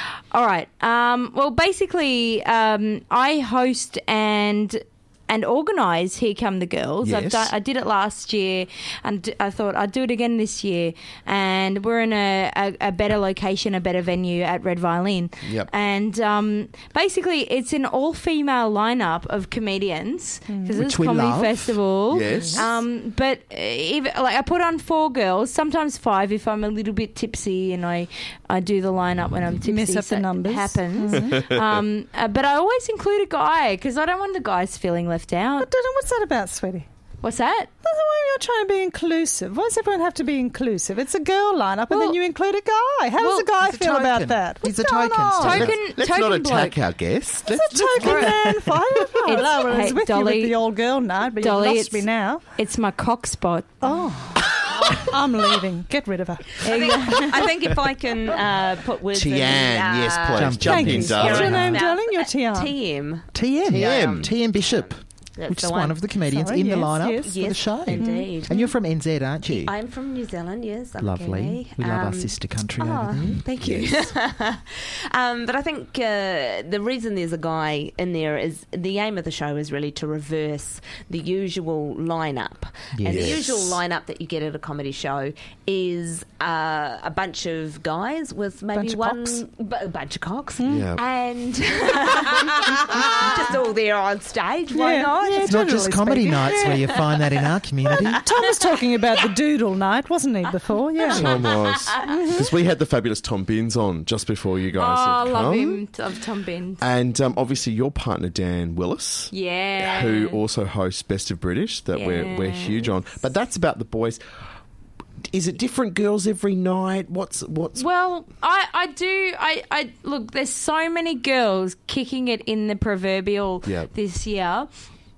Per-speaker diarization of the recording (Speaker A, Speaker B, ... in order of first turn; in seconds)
Speaker A: 0.3-35.7, 37.2-37.7, 41.9-42.1, 43.2-43.5, 45.4-46.8, 47.9-48.5, 49.2-50.6, 51.4-53.8, 56.6-57.5, 101.9-102.3, 104.8-106.8, 109.3-110.4, 111.9-112.9, 117.8-124.7
Speaker B: 7.0-7.5, 15.4-15.7, 22.1-22.8, 31.1-31.8, 45.5-48.3, 59.1-61.8, 63.7-64.3, 73.6-73.9, 83.0-83.8, 90.6-91.0, 101.1-105.8, 106.8-114.2, 115.3-117.9, 123.6-123.9
Speaker C: 20.5-20.8, 22.3-22.6, 29.6-31.4, 35.6-36.9, 37.8-45.6, 47.5-52.4, 53.8-57.2, 60.6-62.7, 66.3-67.4, 67.9-68.7, 88.7-89.5, 90.6-90.9, 94.7-96.7, 97.9-101.5, 102.1-102.4
Speaker D: 20.8-21.8, 43.6-45.8, 48.0-48.5, 60.3-61.8, 63.3-69.7, 71.0-73.4, 82.9-83.4, 95.2-98.2
Speaker E: 56.6-66.1, 67.2-68.7, 69.5-98.7